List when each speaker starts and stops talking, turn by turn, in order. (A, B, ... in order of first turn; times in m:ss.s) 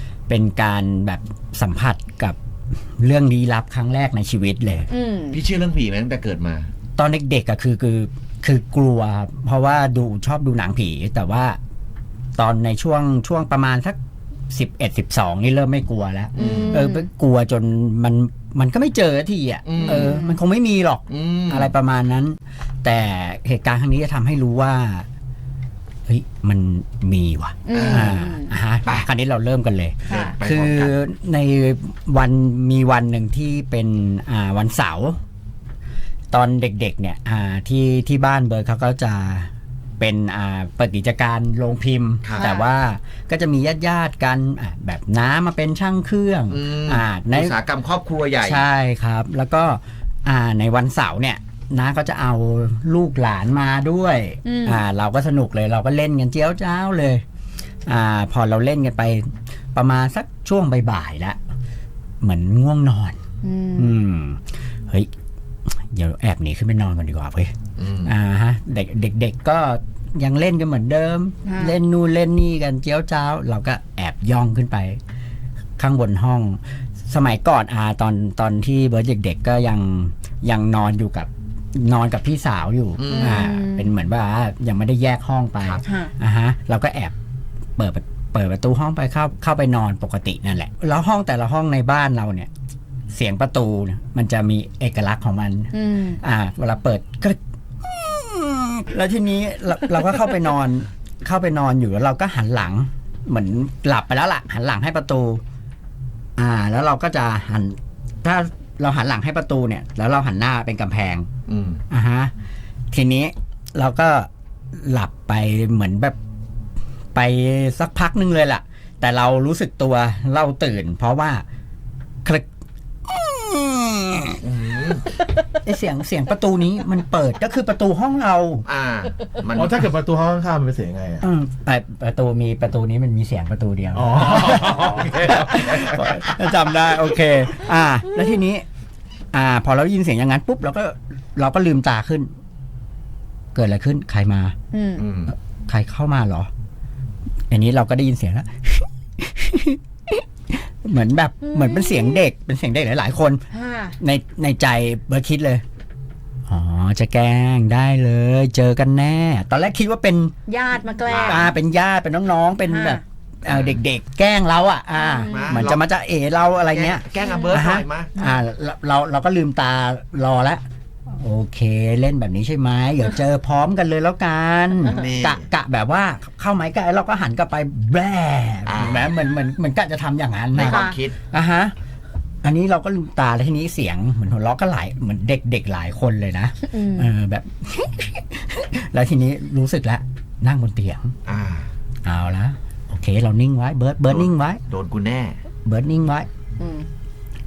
0:00.3-0:02.4 A
0:03.0-0:04.9 A
0:04.9-0:05.4 B
0:05.3-0:06.7 C
0:07.0-0:11.6 A
0:12.4-0:14.0 A
0:14.5-0:25.1 A
0:16.4-0:17.1 B
0:16.4-0:16.8 C
0:19.6-0:20.2 C
0:19.8-0:20.4 B
0:21.1-0:21.7 C
0:26.1-0:35.2 A
0:27.7-0:28.5 B
0:27.7-0:28.2 C
0:30.0-0:31.0 C
0:36.3-0:47.6 A
0:42.2-0:42.5 C
0:42.4-0:42.7 B
0:46.5-0:48.7 C
0:48.4-0:57.2 A
0:54.4-0:54.8 B
0:57.9-1:01.4 A
1:02.2-1:03.2 A
1:03.4-1:04.0 B
1:03.8-1:05.1 A
1:05.8-1:15.0 A
1:07.8-1:08.1 C
1:11.4-1:11.8 B
1:15.8-1:27.1 A
1:23.0-1:23.5 C
1:23.1-1:23.9 B
1:25.8-1:26.1 B
1:27.8-1:32.5 A
1:33.1-1:45.4 A
1:35.7-1:36.2 B
1:46.4-1:51.3 A
1:51.5-1:51.8 C
1:51.9-1:52.3 A
1:52.9-1:56.2 A
1:57.2-2:01.4 A
2:03.1-2:04.5 A
2:04.4-2:05.1 C
2:05.5-2:08.7 A
2:08.7-2:09.8 C
2:09.6-2:11.3 D
2:11.2-2:18.7 A
2:13.9-2:16.0 D
2:19.3-2:22.3 A
2:23.6-2:24.6 A
2:24.7-2:25.1 B
2:25.0-2:25.3 C
2:25.3-2:26.5 A
2:27.5-2:33.4 A
2:31.4-2:32.2 B
2:33.5-2:34.0 B
2:34.0-2:35.6 A
2:36.5-2:40.3 A
2:40.5-2:41.5 B
2:41.1-2:41.5 C
2:41.1-3:01.7 A
2:42.7-2:43.0 B
2:43.4-2:43.8 C
2:45.0-2:45.6 B
2:45.3-2:45.8 C
2:46.7-2:48.1 C
2:47.2-2:47.5 B
2:54.8-2:55.5 C
2:58.7-2:59.1 C
3:00.5-3:01.2 C
3:00.6-3:01.0 B
3:02.4-3:11.2 A
3:06.7-3:07.1 B
3:11.3-3:11.7 C
3:12.0-3:14.6 A
3:14.1-3:15.4 C
3:15.6-3:16.3 A
3:16.6-3:16.9 B